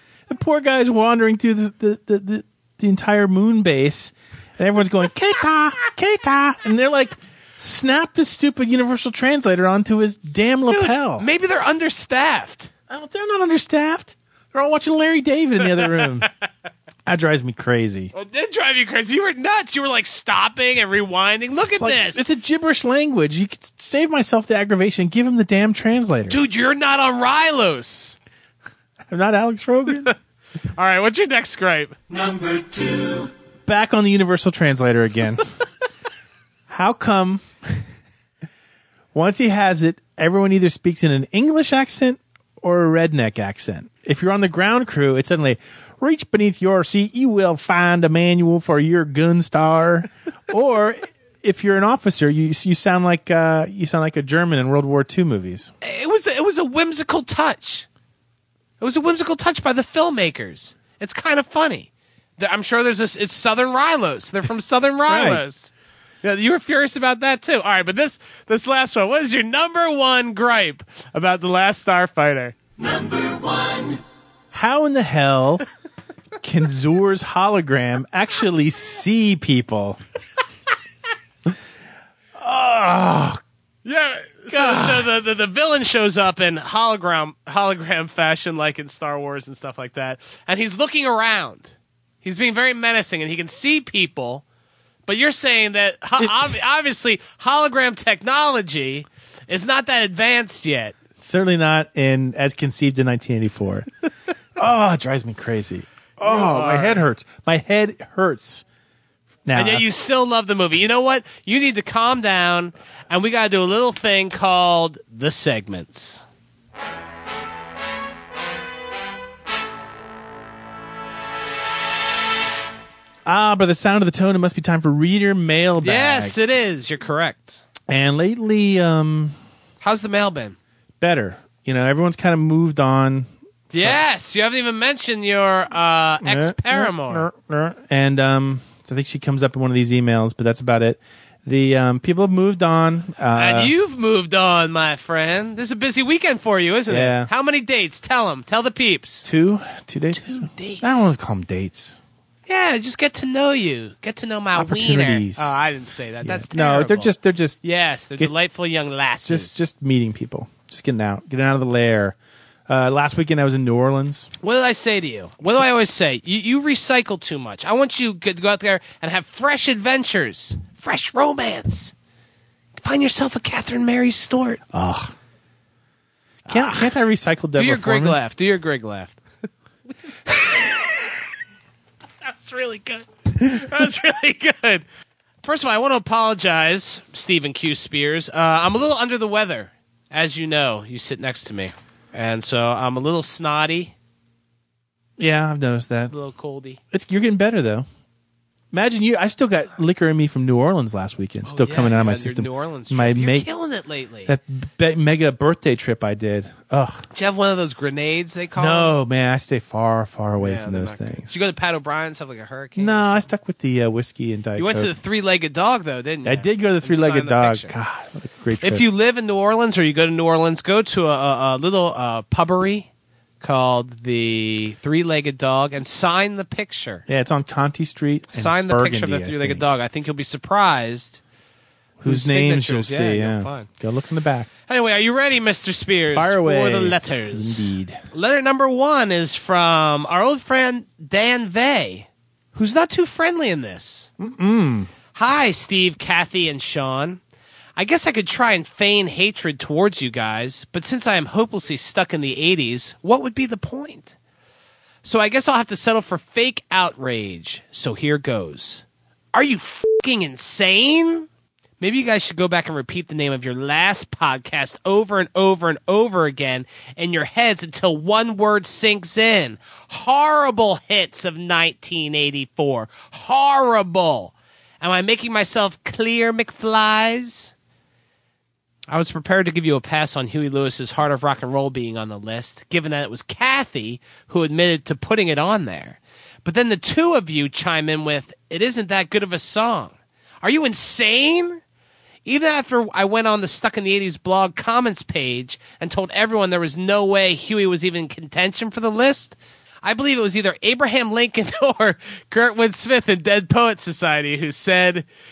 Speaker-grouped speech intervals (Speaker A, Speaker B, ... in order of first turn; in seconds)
Speaker A: 0.3-11.3, 12.9-16.3, 17.1-18.1, 21.8-26.4, 29.1-30.1, 33.6-35.4, 36.7-37.8, 39.1-55.7, 65.1-65.4, 74.5-75.6, 76.4-80.0, 82.3-83.4, 84.5-85.1, 96.2-96.5, 101.2-103.9, 104.6-108.6, 109.5-109.8, 123.2-126.4, 127.9-129.4, 131.0-134.0, 136.2-143.7, 146.9-147.3, 149.2-152.0, 154.5-155.5, 156.2-157.6, 159.2-162.2, 162.7-164.3, 174.7-175.1, 176.4-178.2, 195.2-196.1, 196.9-197.9, 198.7-203.5, 204.2-207.0, 208.6-211.4, 212.8-214.9, 216.2-218.9, 227.1-229.7, 232.0-234.5, 236.1-238.0, 244.2-244.9
Speaker B: 10.7-12.7, 15.8-16.1, 18.1-22.2, 26.3-28.1, 30.8-31.9, 55.8-57.9, 58.8-65.7, 66.2-72.6, 83.8-94.4, 95.0-101.0, 106.2-107.0, 109.5-116.2, 125.8-127.6, 129.8-130.6, 133.7-137.3, 143.3-149.3, 150.1-151.1, 152.5-159.6, 164.4-171.9, 172.8-174.6, 176.5-176.9, 177.5-179.2, 180.2-181.1, 182.2-184.8, 185.4-193.9, 196.1-196.8, 201.4-204.3, 207.1-209.0, 210.4-213.3, 214.6-217.7, 218.6-222.9, 223.4-227.0, 228.3-231.2, 232.0-233.7, 234.7-244.1, 245.1-247.2, 247.8-254.1, 255.0-261.3, 261.8-277.5, 278.9-291.6, 292.2-305.1